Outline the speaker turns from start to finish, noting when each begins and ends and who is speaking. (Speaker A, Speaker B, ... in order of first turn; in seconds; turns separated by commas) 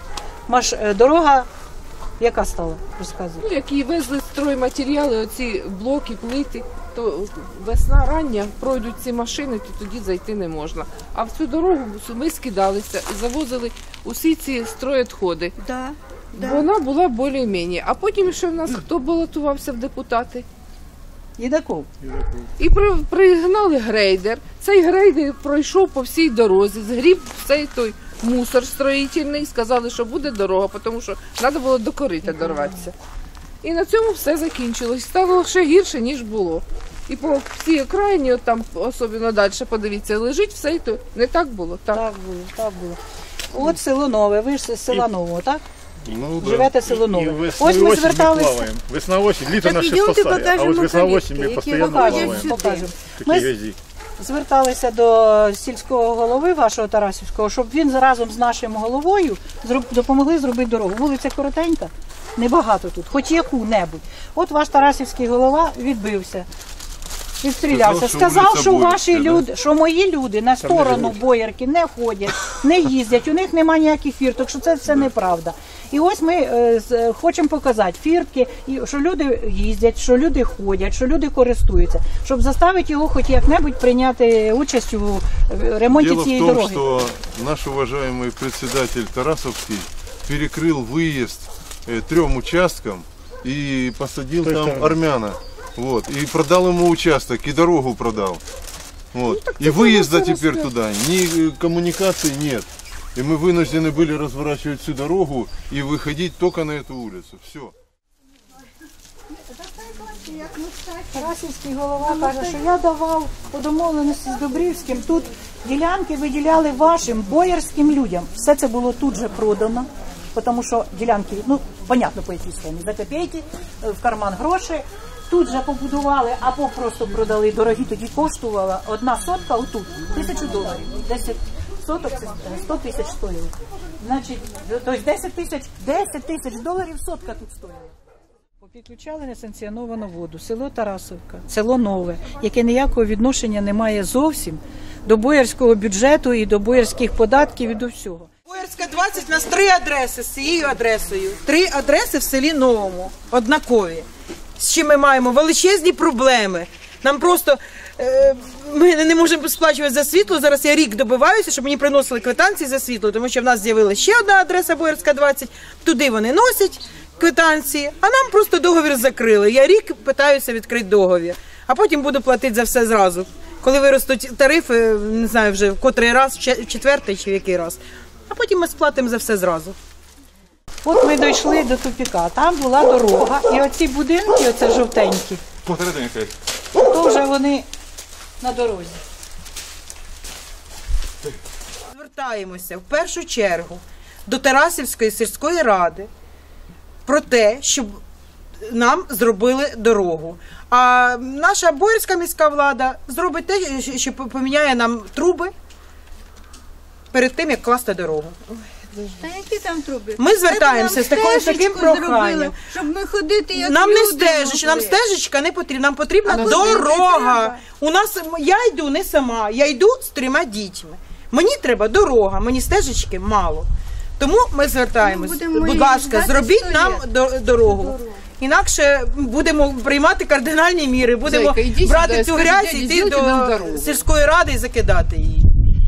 Speaker A: 0.5-1.5, Speaker A: 2.2-3.5, Speaker B: 3.4-15.5, Speaker B: 16.3-20.4, Speaker A: 21.4-21.9, Speaker B: 22.6-32.9, Speaker A: 32.3-32.7, Speaker B: 33.6-42.0, Speaker A: 41.9-43.0, Speaker A: 43.5-45.6, Speaker C: 46.1-53.8, Speaker D: 46.2-46.5, Speaker A: 46.4-48.7, Speaker E: 49.7-52.0, Speaker A: 51.7-53.5, Speaker A: 54.2-66.5, Speaker A: 67.4-86.8, Speaker D: 67.7-69.5, Speaker C: 70.6-71.2, Speaker D: 85.9-98.4, Speaker C: 94.4-95.0, Speaker D: 99.1-107.7, Speaker E: 109.7-111.0, Speaker A: 111.1-137.9, Speaker A: 138.6-148.3, Speaker F: 148.5-154.1, Speaker F: 154.6-179.8, Speaker A: 180.8-185.4, Speaker A: 186.8-187.7, Speaker A: 188.4-189.0, Speaker F: 191.9-196.1, Speaker F: 197.1-198.0, Speaker F: 198.6-205.5, Speaker F: 207.1-209.0, Speaker E: 209.2-215.0, Speaker F: 210.2-212.7, Speaker F: 213.5-235.5, Speaker E: 216.2-217.6, Speaker E: 225.0-227.1, Speaker E: 227.6-228.0, Speaker B: 231.2-233.8